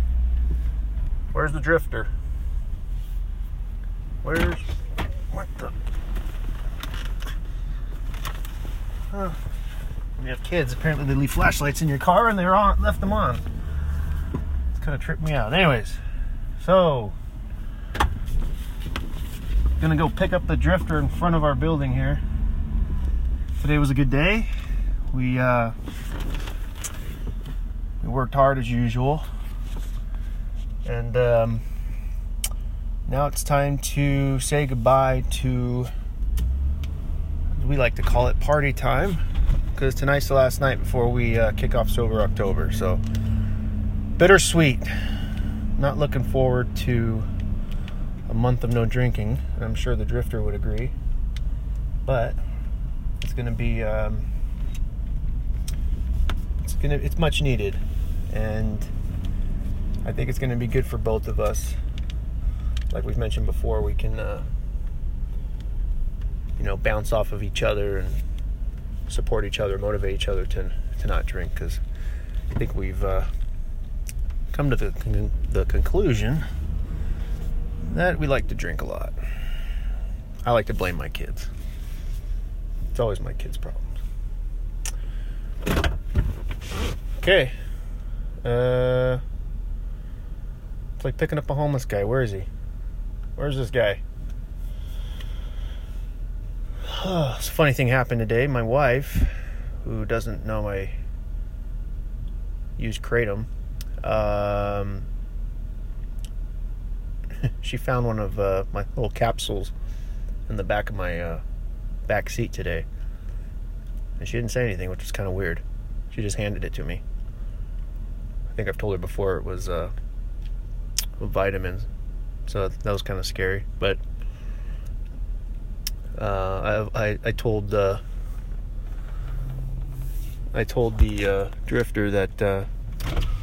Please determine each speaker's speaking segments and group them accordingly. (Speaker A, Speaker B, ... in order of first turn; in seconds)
Speaker A: 1.3-2.1, 4.2-4.7, 5.3-5.7, 9.1-9.4, 10.2-13.4, 14.8-16.0, 16.6-17.1, 19.8-22.2, 23.6-24.5, 25.1-25.7, 28.0-29.2, 30.9-31.6, 33.1-35.9, 37.5-39.2, 39.8-43.0, 44.2-44.9, 45.8-47.3, 48.3-50.9, 52.0-52.4, 53.2-54.3, 56.6-58.9, 60.0-61.8, 62.9-64.5, 66.6-68.2, 69.1-71.8, 72.5-73.3, 74.5-76.4, 77.8-79.2, 80.5-81.5, 82.9-83.9, 87.2-87.5, 88.4-89.2, 91.0-92.5, 93.4-94.0, 96.8-101.0, 102.8-103.5, 104.0-105.1, 107.4-109.7, 110.5-111.4, 112.1-112.9, 114.2-117.0, 118.5-119.9, 121.2-121.9, 122.5-124.0, 126.2-128.0, 130.5-132.7